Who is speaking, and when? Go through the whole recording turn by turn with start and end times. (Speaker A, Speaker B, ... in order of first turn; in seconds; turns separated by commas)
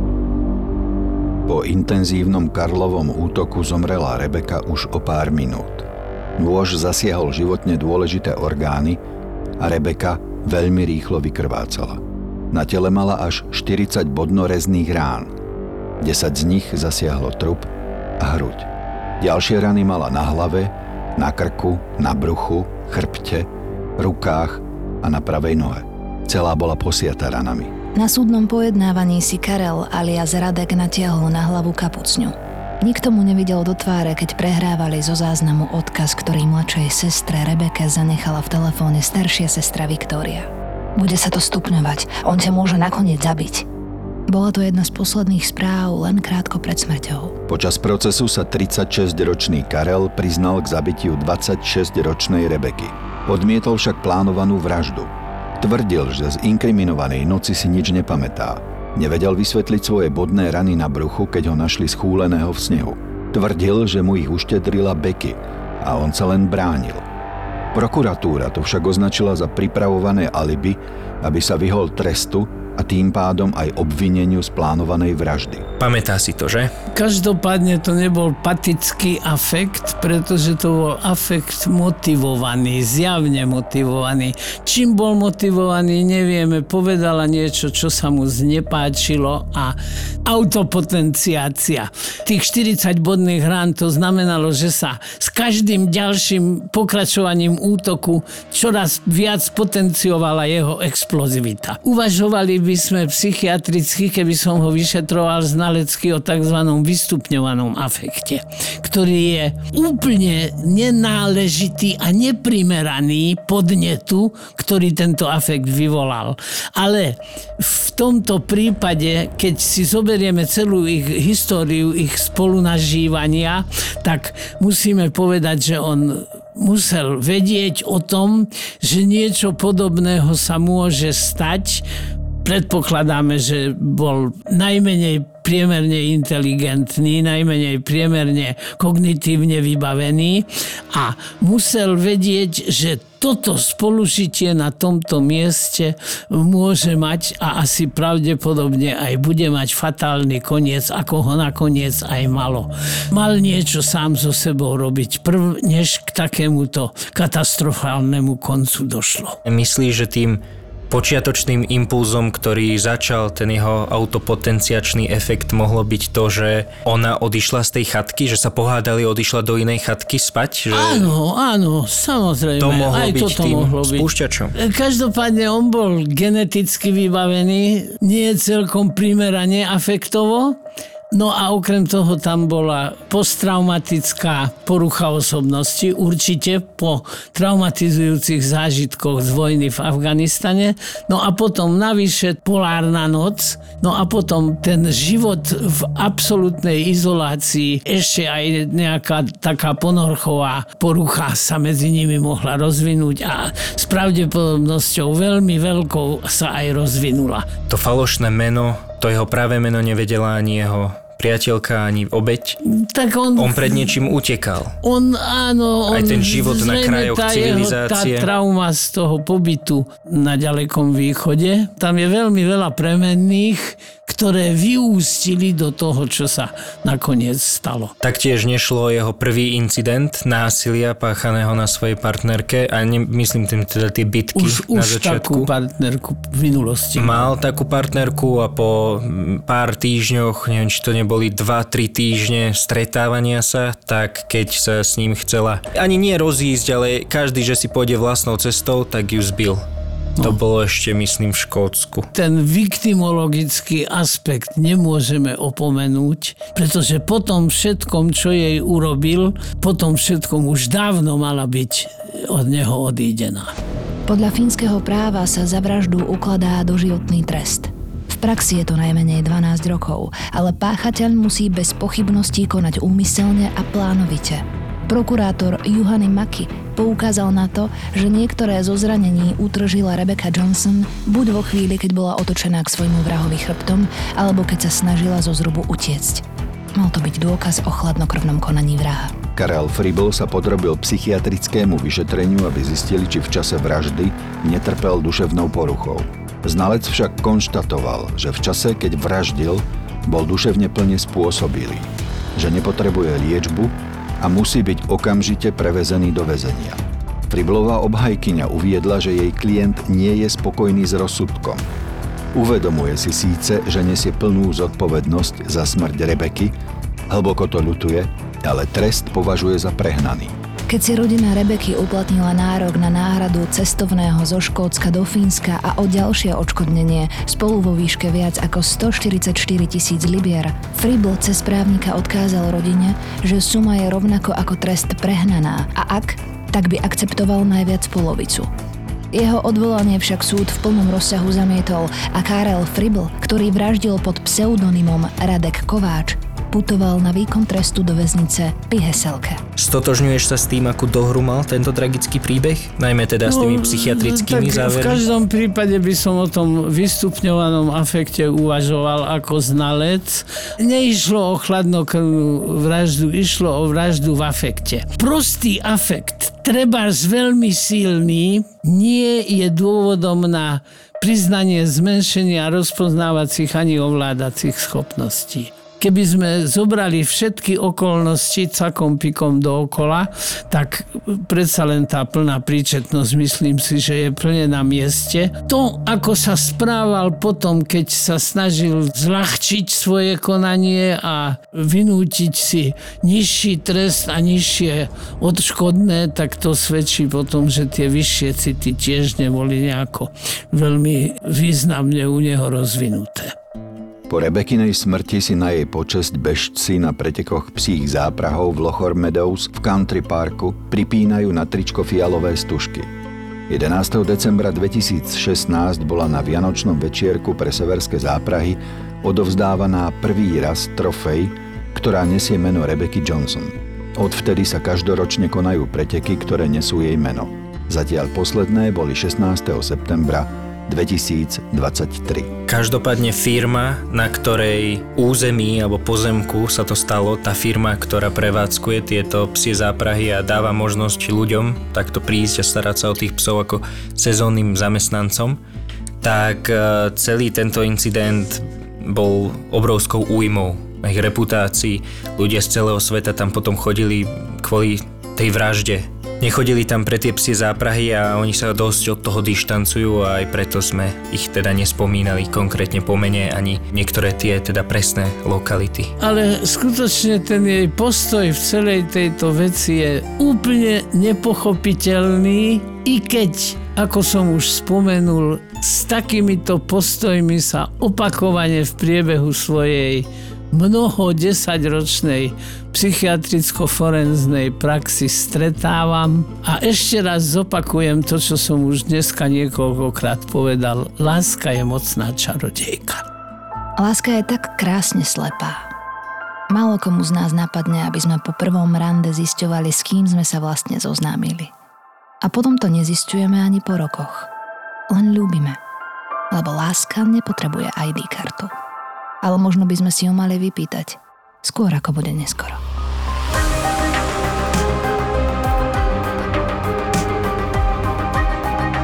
Speaker A: 1.5-5.8, Speaker A: 6.4-9.0, Speaker A: 9.6-15.3, Speaker A: 16.0-18.7, Speaker A: 19.2-27.7, Speaker B: 27.9-43.6, Speaker B: 44.3-47.4, Speaker A: 47.5-67.0, Speaker A: 67.7-75.7, Speaker C: 75.8-76.7, Speaker D: 76.9-131.8, Speaker D: 132.4-159.4, Speaker C: 159.4-171.1, Speaker D: 170.7-180.6, Speaker C: 172.6-174.6, Speaker D: 181.1-207.5, Speaker C: 207.7-212.6, Speaker D: 212.6-213.9, Speaker C: 213.4-214.7, Speaker D: 214.8-227.9, Speaker C: 215.9-218.3, Speaker C: 228.0-235.5, Speaker D: 234.3-237.3, Speaker C: 237.0-249.6, Speaker C: 250.2-252.1, Speaker D: 252.1-263.5, Speaker B: 264.1-286.2, Speaker B: 286.7-289.1, Speaker A: 289.3-311.6, Speaker A: 312.3-316.5, Speaker A: 317.1-320.3, Speaker B: 320.7-338.5, Speaker B: 339.1-349.4, Speaker C: 349.6-355.0, Speaker D: 353.3-403.3, Speaker A: 404.1-412.9, Speaker A: 413.5-432.3, Speaker C: 432.5-445.4, Speaker C: 446.0-465.9, Speaker D: 466.0-493.0, Speaker B: 493.8-495.7, Speaker B: 496.5-501.5, Speaker B: 502.2-504.3, Speaker B: 504.9-505.6, Speaker B: 506.3-508.5, Speaker B: 509.2-512.6